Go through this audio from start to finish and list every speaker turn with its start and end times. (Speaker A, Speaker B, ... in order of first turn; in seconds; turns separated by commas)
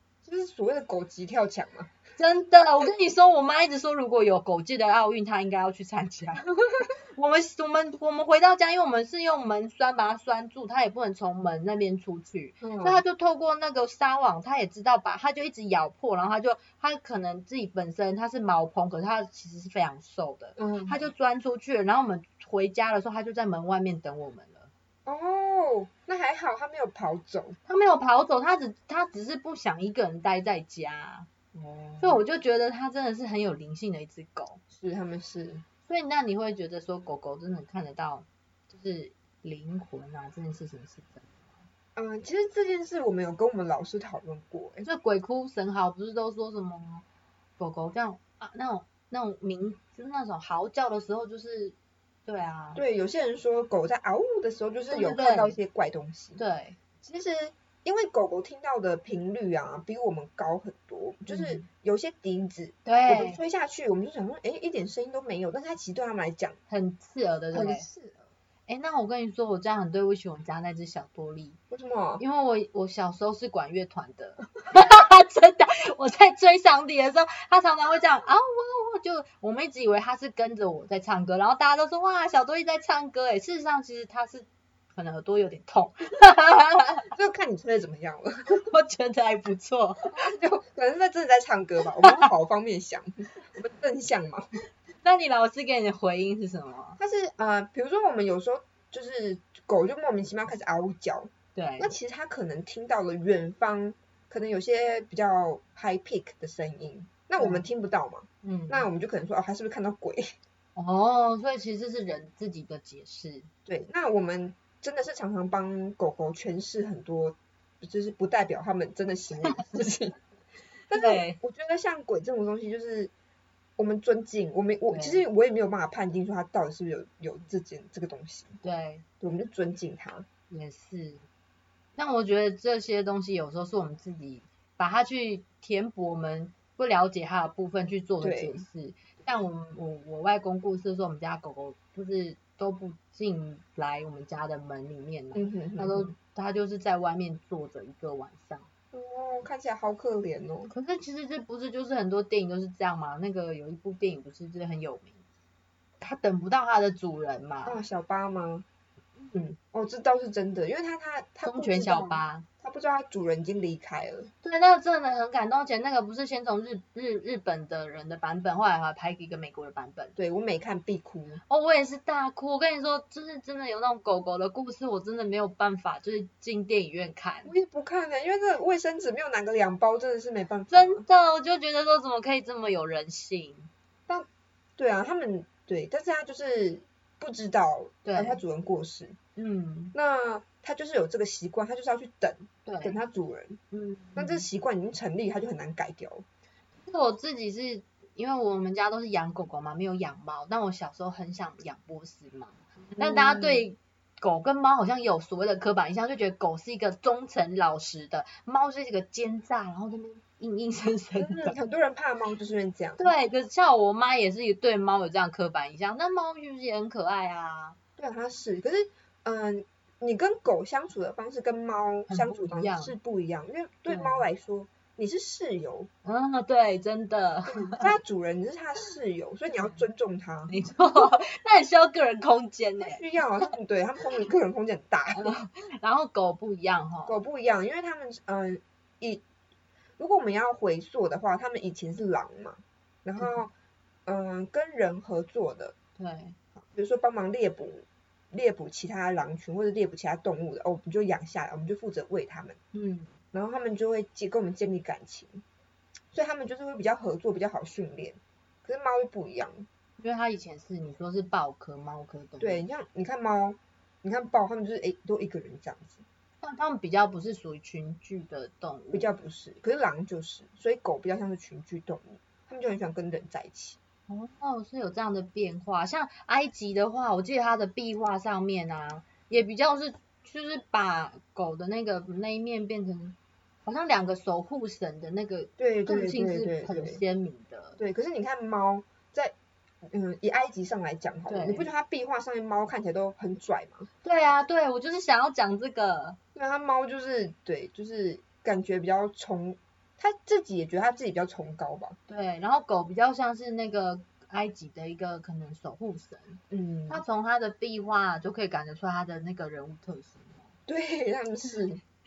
Speaker A: 0.2-1.9, Speaker B: 2.2-24.7, Speaker A: 12.6-13.0, Speaker A: 20.6-21.1, Speaker A: 25.1-27.6, Speaker B: 27.7-31.3, Speaker A: 31.5-32.2, Speaker B: 32.0-34.6, Speaker A: 34.7-35.6, Speaker B: 35.9-41.6, Speaker A: 42.0-44.9, Speaker B: 44.8-47.0, Speaker B: 47.6-51.8, Speaker B: 52.3-52.8, Speaker A: 52.8-56.4, Speaker B: 54.9-55.6, Speaker B: 56.4-56.8, Speaker A: 57.0-66.6, Speaker B: 61.3-61.6, Speaker B: 62.9-63.4, Speaker B: 66.7-67.9, Speaker A: 67.5-68.2, Speaker B: 68.7-71.6, Speaker A: 71.7-72.2, Speaker B: 72.2-87.1, Speaker A: 87.1-88.5, Speaker B: 88.5-90.3, Speaker A: 90.1-94.5, Speaker B: 95.0-97.0, Speaker A: 97.0-110.4, Speaker B: 101.5-101.9, Speaker B: 107.4-107.7, Speaker B: 108.4-108.9, Speaker B: 110.8-113.5, Speaker A: 113.7-120.2, Speaker A: 120.9-123.1, Speaker B: 120.9-121.4, Speaker A: 123.8-128.6, Speaker B: 124.9-125.2, Speaker B: 128.6-129.0, Speaker A: 129.2-130.3, Speaker B: 130.5-131.2, Speaker B: 132.0-148.7, Speaker A: 138.2-138.6, Speaker A: 145.3-146.1, Speaker A: 148.9-150.7, Speaker B: 150.7-155.2, Speaker B: 156.0-157.8, Speaker A: 157.7-158.7, Speaker A: 159.3-164.3, Speaker B: 161.4-162.5, Speaker B: 164.4-170.1, Speaker A: 170.2-171.4, Speaker B: 171.5-177.5, Speaker A: 177.4-181.0, Speaker B: 180.7-183.7, Speaker A: 184.1-189.2, Speaker B: 188.1-188.4, Speaker B: 189.4-189.9, Speaker A: 189.9-193.6, Speaker B: 192.7-193.0, Speaker B: 193.7-194.5, Speaker A: 194.2-196.3, Speaker B: 196.8-211.6, Speaker A: 203.0-203.7, Speaker A: 211.2-213.1, Speaker B: 213.0-217.8, Speaker A: 218.0-225.9, Speaker B: 222.1-222.9, Speaker B: 223.9-224.2, Speaker B: 226.1-227.9, Speaker A: 227.5-230.6, Speaker B: 230.5-233.0, Speaker A: 232.8-235.3, Speaker B: 235.2-237.2, Speaker A: 237.1-239.2, Speaker A: 240.0-243.5, Speaker B: 243.2-243.4, Speaker A: 244.1-245.8, Speaker B: 246.0-246.4, Speaker A: 246.6-252.6, Speaker B: 252.7-253.1, Speaker A: 253.3-255.4, Speaker A: 256.1-259.7, Speaker B: 260.0-262.6, Speaker A: 262.4-266.0, Speaker B: 266.4-269.1, Speaker A: 268.9-273.8, Speaker B: 274.1-287.8, Speaker A: 285.6-287.0, Speaker A: 287.8-293.9, Speaker B: 291.3-291.7, Speaker B: 294.0-296.2, Speaker A: 296.4-302.0, Speaker B: 302.1-310.5, Speaker A: 306.5-307.0, Speaker A: 310.7-311.8